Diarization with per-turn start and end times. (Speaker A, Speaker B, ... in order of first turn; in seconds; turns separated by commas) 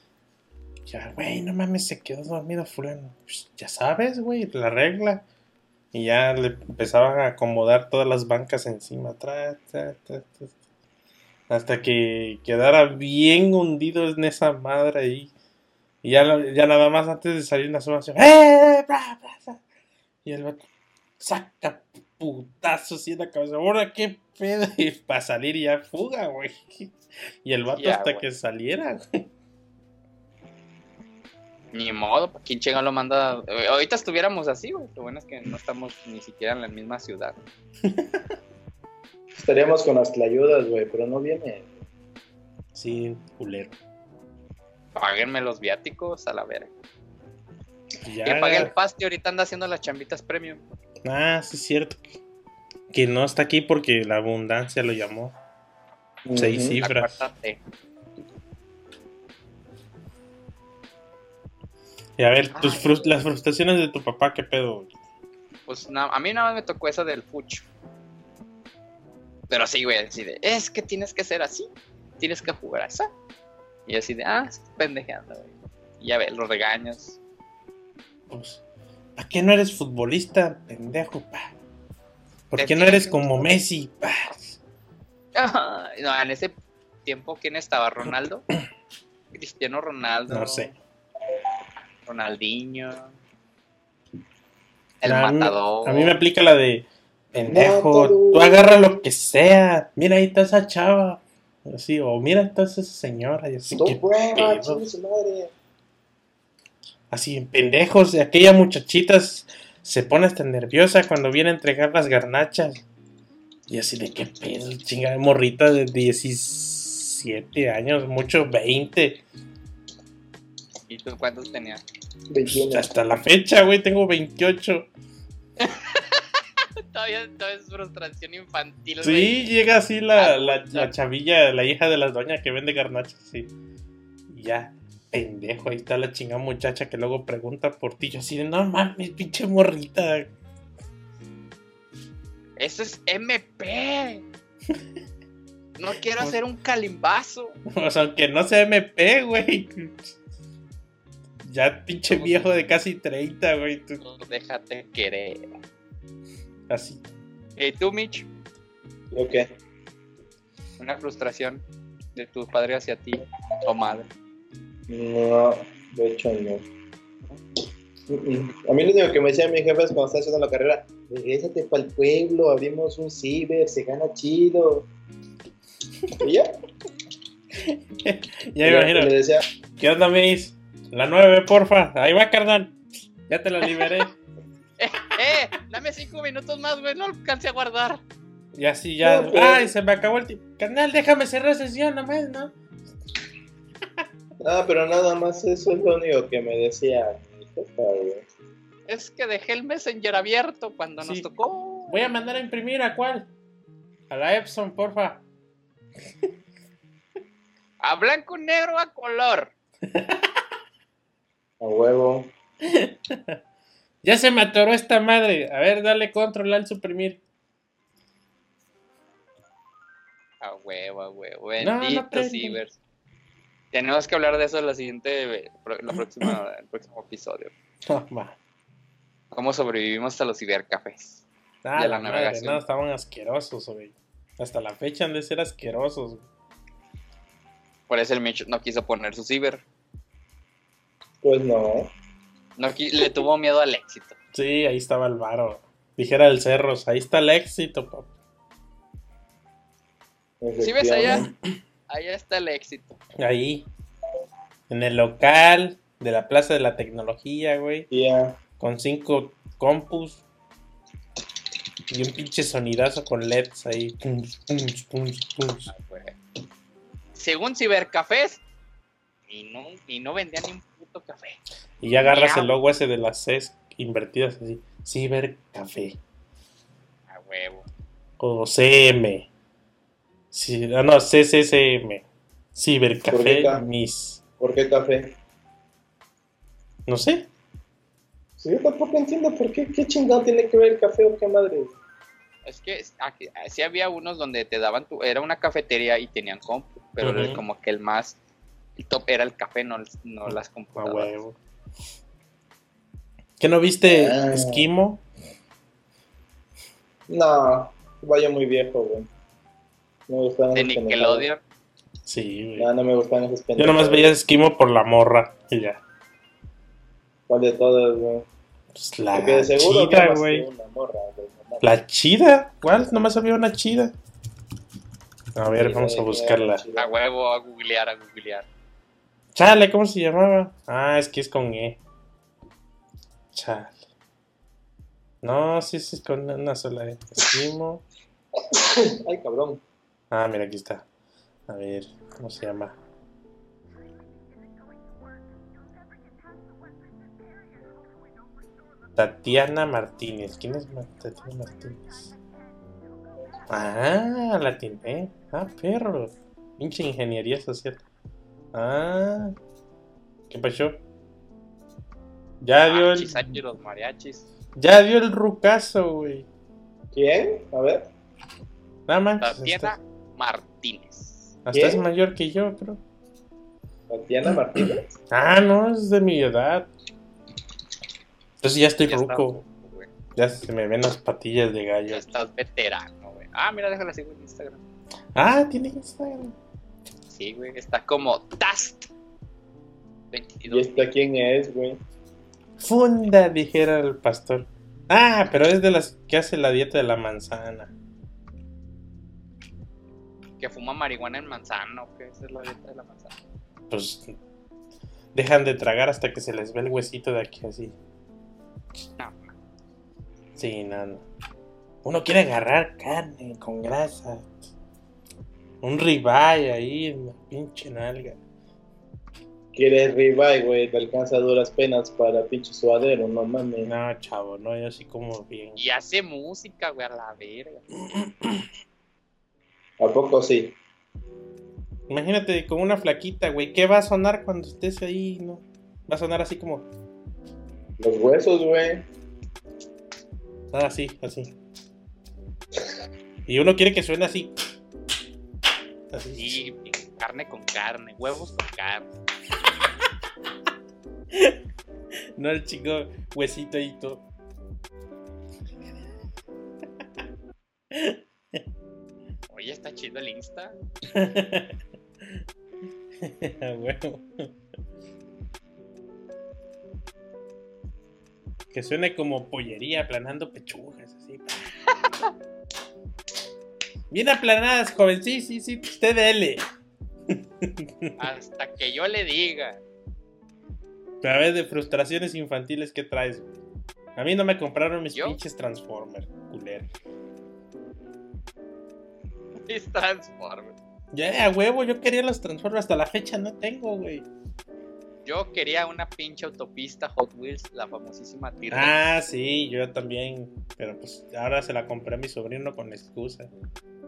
Speaker A: 0.9-5.2, Speaker A: 5.9-10.5, Speaker A: 11.5-15.3, Speaker A: 16.0-19.6, Speaker A: 20.2-20.6, Speaker A: 21.2-29.2, Speaker B: 27.7-28.2, Speaker B: 31.7-37.4, Speaker A: 37.8-38.3, Speaker C: 39.3-41.7, Speaker A: 42.7-43.8, Speaker B: 44.9-46.7, Speaker A: 48.0-48.7, Speaker B: 48.2-50.6, Speaker A: 51.0-52.1, Speaker A: 52.9-55.4, Speaker C: 56.2-56.8, Speaker A: 56.4-57.2, Speaker B: 56.8-57.6, Speaker A: 62.2-64.9, Speaker B: 62.5-63.1, Speaker B: 65.7-67.6, Speaker B: 69.5-73.1, Speaker B: 73.9-77.2, Speaker A: 78.3-78.6, Speaker A: 79.2-81.5, Speaker A: 82.5-84.6, Speaker B: 82.6-83.3, Speaker B: 85.3-88.5, Speaker B: 89.3-90.7, Speaker A: 90.3-90.7, Speaker B: 92.1-93.1, Speaker B: 95.0-96.1, Speaker A: 95.0-104.8, Speaker C: 97.5-98.9, Speaker C: 103.7-105.5, Speaker A: 107.1-112.8, Speaker A: 113.7-119.2, Speaker B: 120.9-121.8, Speaker C: 122.3-122.8, Speaker A: 122.5-124.9, Speaker B: 125.6-126.2, Speaker B: 126.9-129.4, Speaker A: 129.0-133.5, Speaker B: 130.2-130.9, Speaker A: 134.3-140.3, Speaker B: 142.6-144.2, Speaker B: 145.8-147.6, Speaker A: 147.7-150.1, Speaker A: 151.4-154.0, Speaker B: 152.1-152.4, Speaker B: 154.0-155.6, Speaker A: 156.7-157.1, Speaker B: 157.6-158.3, Speaker C: 159.1-159.5, Speaker B: 160.8-161.6, Speaker B: 162.1-164.1, Speaker C: 164.9-166.6, Speaker C: 168.1-174.9, Speaker C: 176.2-176.5, Speaker A: 177.6-179.1, Speaker C: 178.6-179.4, Speaker A: 179.8-182.8, Speaker A: 183.3-184.1, Speaker B: 184.8-188.0, Speaker A: 188.5-192.5, Speaker C: 189.0-189.7, Speaker C: 194.4-198.2, Speaker B: 198.9-202.0, Speaker A: 201.0-201.3, Speaker A: 201.9-203.3, Speaker A: 204.1-205.2, Speaker B: 207.8-209.5, Speaker A: 209.9-210.4, Speaker C: 211.6-212.3, Speaker A: 212.6-213.4, Speaker A: 214.0-217.2, Speaker B: 220.4-222.8, Speaker A: 221.6-222.6, Speaker B: 223.7-227.5, Speaker A: 227.8-228.3, Speaker B: 229.3-231.2, Speaker A: 231.6-236.2, Speaker B: 231.8-232.6, Speaker B: 237.9-239.6, Speaker C: 241.2-241.9, Speaker B: 242.6-244.2, Speaker A: 244.3-248.1, Speaker C: 250.4-251.3, Speaker B: 250.6-251.3, Speaker B: 251.9-253.0, Speaker A: 253.2-253.7, Speaker A: 254.7-257.9, Speaker C: 257.9-258.4, Speaker A: 258.6-260.2, Speaker A: 261.9-265.7, Speaker B: 265.7-266.2, Speaker B: 267.1-268.4, Speaker B: 269.3-271.4, Speaker A: 271.8-276.0, Speaker B: 272.0-272.5, Speaker B: 277.1-277.7, Speaker A: 278.2-279.3, Speaker A: 280.3-284.2, Speaker C: 283.1-283.6, Speaker C: 284.4-285.1, Speaker A: 286.9-287.3, Speaker C: 288.4-291.7, Speaker B: 292.4-298.2, Speaker A: 297.0-297.4, Speaker B: 298.8-301.1, Speaker A: 300.3-301.4, Speaker A: 303.4-305.0, Speaker C: 303.9-304.7, Speaker C: 307.1-309.1, Speaker C: 310.1-311.2, Speaker B: 310.5-311.4, Speaker A: 312.1-312.7, Speaker C: 312.6-314.1, Speaker A: 313.6-315.8, Speaker C: 317.3-318.3, Speaker A: 318.7-320.5, Speaker C: 319.1-321.7, Speaker A: 321.6-323.9, Speaker A: 325.3-326.6, Speaker C: 325.6-326.9, Speaker B: 326.8-328.5, Speaker A: 329.3-331.8, Speaker A: 333.3-333.8, Speaker A: 335.2-337.8, Speaker C: 338.5-339.6, Speaker A: 340.1-340.8, Speaker A: 341.5-342.8, Speaker A: 348.9-352.1, Speaker A: 353.5-357.8, Speaker A: 358.5-359.3, Speaker A: 360.3-360.8, Speaker A: 362.4-363.4, Speaker B: 362.7-364.2, Speaker A: 364.6-366.3, Speaker C: 366.9-367.9, Speaker A: 368.9-369.8, Speaker B: 369.2-371.3, Speaker A: 371.4-372.8, Speaker C: 371.5-371.8, Speaker C: 373.9-374.9, Speaker A: 374.3-376.7, Speaker A: 378.4-379.4, Speaker B: 378.9-379.9, Speaker A: 380.1-382.1, Speaker B: 381.9-384.6, Speaker A: 385.1-386.4, Speaker B: 387.1-388.9, Speaker B: 390.1-390.9, Speaker C: 390.5-391.8, Speaker A: 392.6-397.7, Speaker B: 400.4-403.2, Speaker A: 403.7-404.1, Speaker A: 405.1-407.7, Speaker B: 409.0-409.3, Speaker A: 410.4-411.0, Speaker A: 411.8-414.5, Speaker A: 415.6-418.2, Speaker C: 419.5-423.7, Speaker A: 423.6-425.6, Speaker B: 425.6-427.6, Speaker A: 427.9-428.4, Speaker C: 429.8-430.5, Speaker A: 431.9-436.7, Speaker C: 437.8-438.8, Speaker A: 440.5-441.3, Speaker A: 443.3-444.3, Speaker A: 445.9-446.4, Speaker B: 446.1-448.9, Speaker A: 451.1-451.4, Speaker A: 452.2-454.0, Speaker A: 457.7-458.4, Speaker B: 459.3-460.6, Speaker A: 460.9-462.2, Speaker A: 463.0-464.3, Speaker A: 468.5-471.4, Speaker A: 473.9-476.4, Speaker A: 477.1-478.0, Speaker B: 478.0-479.6, Speaker A: 481.0-483.3, Speaker A: 483.9-486.7, Speaker B: 484.9-485.2, Speaker B: 489.5-490.6, Speaker A: 490.9-494.1, Speaker B: 495.0-498.7, Speaker A: 498.5-503.3